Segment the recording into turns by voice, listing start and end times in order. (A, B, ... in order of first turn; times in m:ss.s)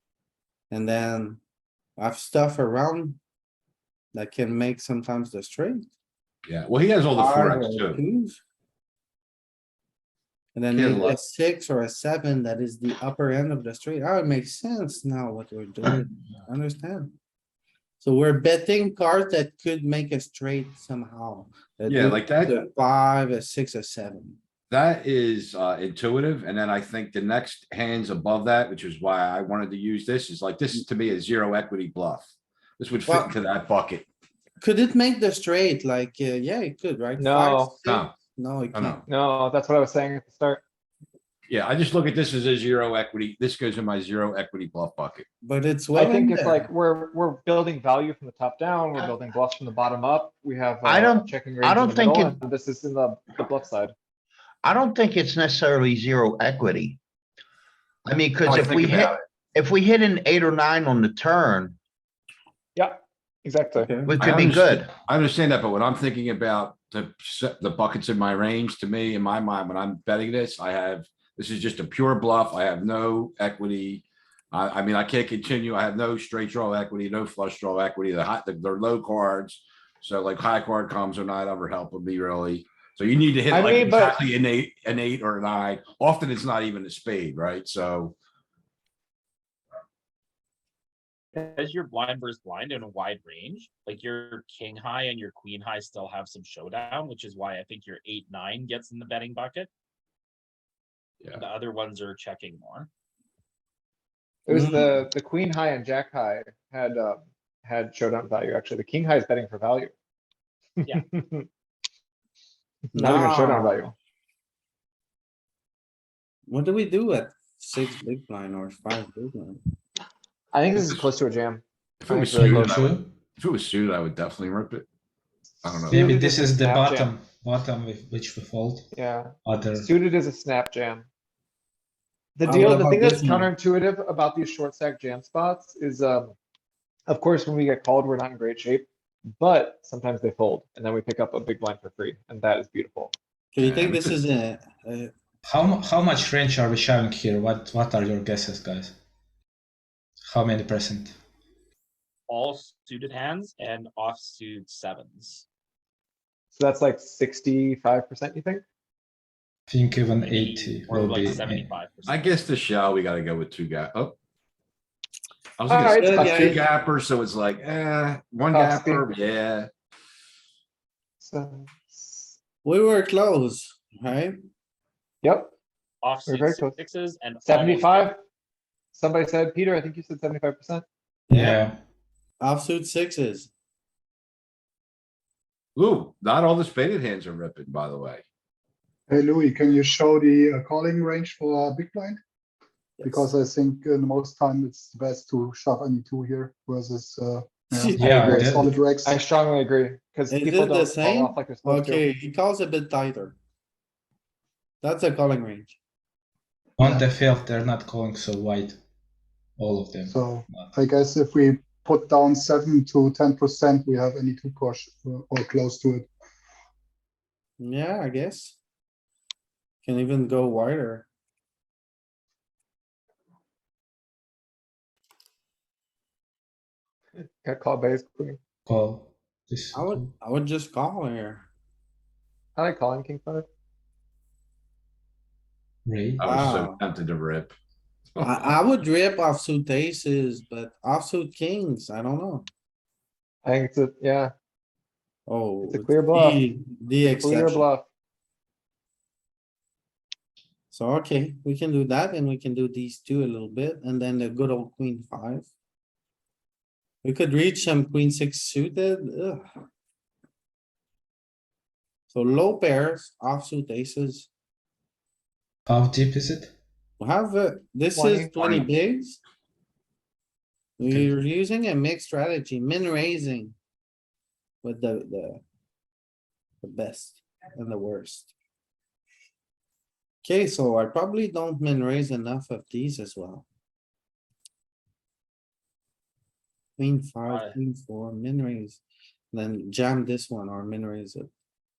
0:00.7-0:01.4 A
0:02.0-0:03.2 A
0:04.1-0:05.8 A
0:06.5-0:08.0 B
0:07.2-0:08.4 A
0:10.6-0:17.2 A
0:10.7-0:11.2 B
0:18.0-0:24.4 A
0:21.9-0:22.6 B
0:24.7-0:34.1 B
0:33.1-0:33.3 A
0:34.6-0:39.0 A
0:37.2-0:37.8 C
0:37.8-0:38.2 B
0:38.7-0:39.0 B
0:39.1-0:40.6 C
0:41.5-0:45.3 B
0:45.4-0:46.7 A
0:45.9-0:53.9 C
0:50.8-0:52.4 D
0:54.6-0:57.0 D
0:58.1-1:01.8 D
0:58.5-0:59.1 B
1:02.8-1:03.9 C
1:03.8-1:04.2 A
1:04.1-1:04.9 D
1:04.2-1:28.2 B
1:23.5-1:24.2 C
1:31.4-1:39.7 E
1:41.3-1:42.9 E
1:44.5-1:49.9 C
1:44.5-1:45.0 A
1:51.1-1:51.5 C
1:52.9-1:53.9 C
1:52.9-1:53.8 A
1:56.5-1:59.6 A
2:00.5-2:02.7 C
2:00.8-2:01.0 B
2:02.0-2:04.9 B
2:02.4-2:03.1 F
2:05.6-2:06.2 B
2:05.7-2:07.1 C
2:05.9-2:08.9 F
2:08.9-2:11.1 C
2:09.4-2:09.9 F
2:12.4-2:16.4 C
2:12.4-2:13.5 A
2:17.1-2:23.1 C
2:23.5-2:25.1 A
2:23.6-2:24.2 B
2:25.4-2:29.0 F
2:30.3-2:31.2 F
2:32.3-2:35.4 E
2:36.5-2:38.6 C
2:39.7-2:41.7 F
2:40.2-2:42.4 E
2:42.1-2:44.2 B
2:45.6-2:49.7 B
2:45.7-2:46.6 C
2:46.0-2:46.6 A
2:48.5-2:49.0 C
2:51.2-2:52.4 C
2:52.6-2:54.4 A
2:55.2-2:55.5 C
2:56.0-2:58.1 E
2:56.3-2:56.8 C
2:57.4-2:58.2 C
2:58.9-3:00.8 C
3:01.3-3:01.6 A
3:01.3-3:01.8 F
3:02.4-3:03.5 A
3:05.8-3:08.2 B
3:09.1-3:12.2 G
3:13.0-3:13.3 A
3:13.0-3:19.2 G
3:17.7-3:18.3 A
3:18.0-3:18.6 F
3:18.0-3:22.0 C
3:20.3-3:23.4 A
3:24.8-3:25.8 A
3:26.8-3:28.8 F
3:29.6-3:30.7 F
3:30.1-3:36.1 G
3:37.6-3:38.6 A
3:39.8-3:41.1 A
3:47.2-3:48.4 C
3:48.7-3:50.1 F
3:49.7-3:51.5 A
3:52.6-3:53.5 C
3:55.9-3:56.5 F
3:56.2-3:57.5 B
3:56.2-3:56.8 A
3:58.1-3:58.5 B
3:58.2-4:02.5 A
4:03.4-4:04.3 C
4:05.3-4:07.7 A
4:05.7-4:06.4 C
4:07.0-4:07.9 C
4:10.7-4:15.5 A
4:17.0-4:19.4 A
4:22.1-4:24.3 A
4:25.7-4:26.5 F
4:27.0-4:29.2 A
4:28.0-4:28.3 C
4:28.4-4:28.6 B
4:30.8-4:33.6 A
4:34.6-4:35.4 A
4:36.6-4:38.3 A
4:40.2-4:43.5 A
4:46.8-4:51.3 A
4:47.3-4:47.6 E